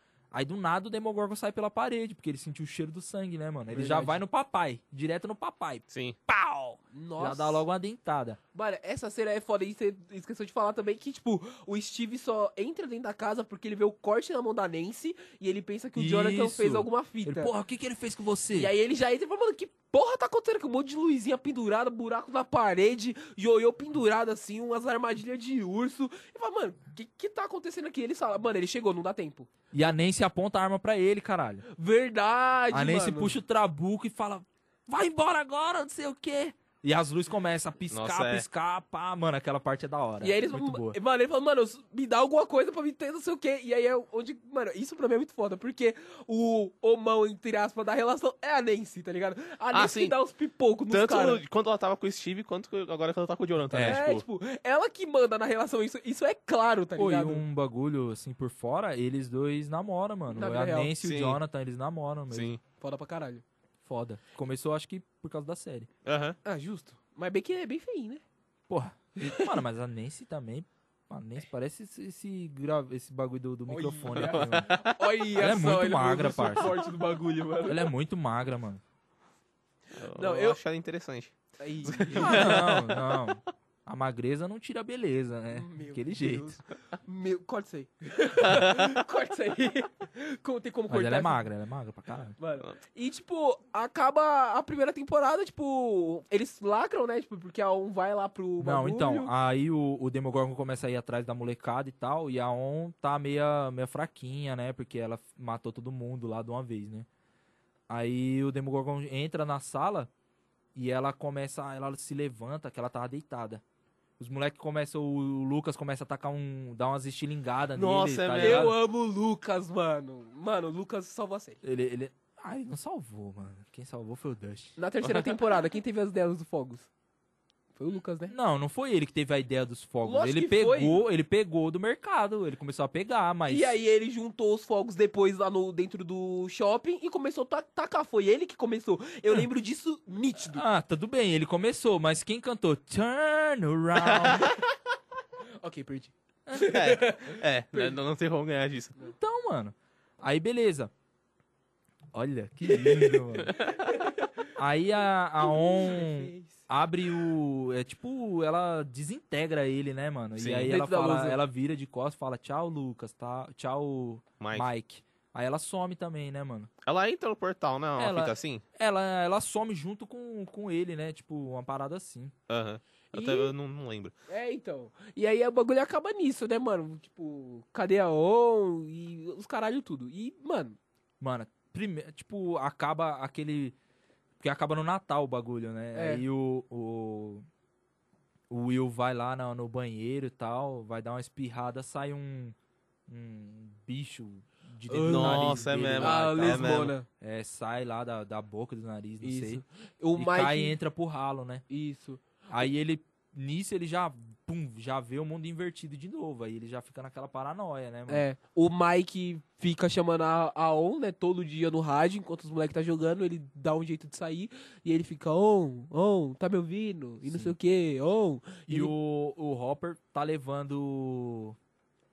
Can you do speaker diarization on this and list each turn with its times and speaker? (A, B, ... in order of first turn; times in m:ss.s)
0:00.3-0:08.4 A
0:03.7-0:04.2 B
0:05.9-0:06.2 C
0:06.9-0:07.6 B
0:08.5-0:17.5 B
0:16.0-0:18.7 A
0:18.5-0:29.5 B
0:29.7-0:31.6 A
0:31.7-0:33.4 B
0:32.7-0:41.0 A
0:37.9-0:38.4 C
0:40.2-0:51.4 B
0:49.7-0:50.1 C
0:50.9-0:54.2 C
0:53.7-0:54.0 A
0:53.8-0:57.4 B
0:57.0-1:02.6 A
1:00.3-1:00.9 B
1:01.0-1:01.4 C
1:02.3-1:02.6 C
1:02.8-1:03.4 B
1:03.8-1:05.9 A
1:06.0-1:06.4 C
1:06.4-1:08.2 B
1:08.7-1:14.8 A
1:09.2-1:09.6 B
1:13.7-1:17.9 B
1:14.1-1:15.0 C
1:15.4-1:16.8 A
1:17.6-1:18.8 A
1:20.0-1:23.3 C
1:20.1-1:20.6 B
1:21.6-1:22.6 B
1:22.2-1:26.6 A
1:25.5-1:31.5 B
1:28.4-1:29.0 C
1:30.9-1:32.4 A
1:32.4-1:39.3 B
1:38.6-1:47.1 A
1:47.9-1:50.1 A
1:50.8-1:53.6 A
1:54.2-1:58.7 A
1:57.7-1:58.7 C
1:58.4-2:01.6 B
2:01.6-2:04.8 A
2:04.8-2:06.9 B
2:07.7-2:08.3 B
2:08.3-2:13.7 A
2:10.0-2:11.0 B
2:13.5-2:20.6 B
2:20.4-2:24.5 A
2:24.0-2:24.6 C
2:25.6-2:28.0 B
2:26.6-2:28.9 C
2:29.0-2:30.9 A
2:32.1-2:33.5 A
2:33.4-2:33.8 C
2:33.5-2:34.5 B
2:34.6-2:46.7 A
2:35.4-2:36.7 B
2:40.4-2:40.7 C
2:40.6-2:41.4 B
2:44.4-2:44.7 C
2:46.8-2:48.6 C
2:48.0-2:52.3 A
2:52.5-2:54.1 C
2:53.1-2:53.5 B
2:54.3-3:00.8 B
3:01.2-3:03.7 A
3:04.4-3:07.4 A
3:05.9-3:06.2 B
3:08.5-3:12.5 A
3:13.1-3:19.6 A
3:14.9-3:17.1 B
3:15.0-3:16.9 C
3:19.2-3:20.7 B
3:20.2-3:21.6 A
3:21.7-3:22.6 B
3:22.5-3:28.2 A
3:28.1-3:38.9 B
3:37.2-3:37.5 A
3:38.7-3:41.6 A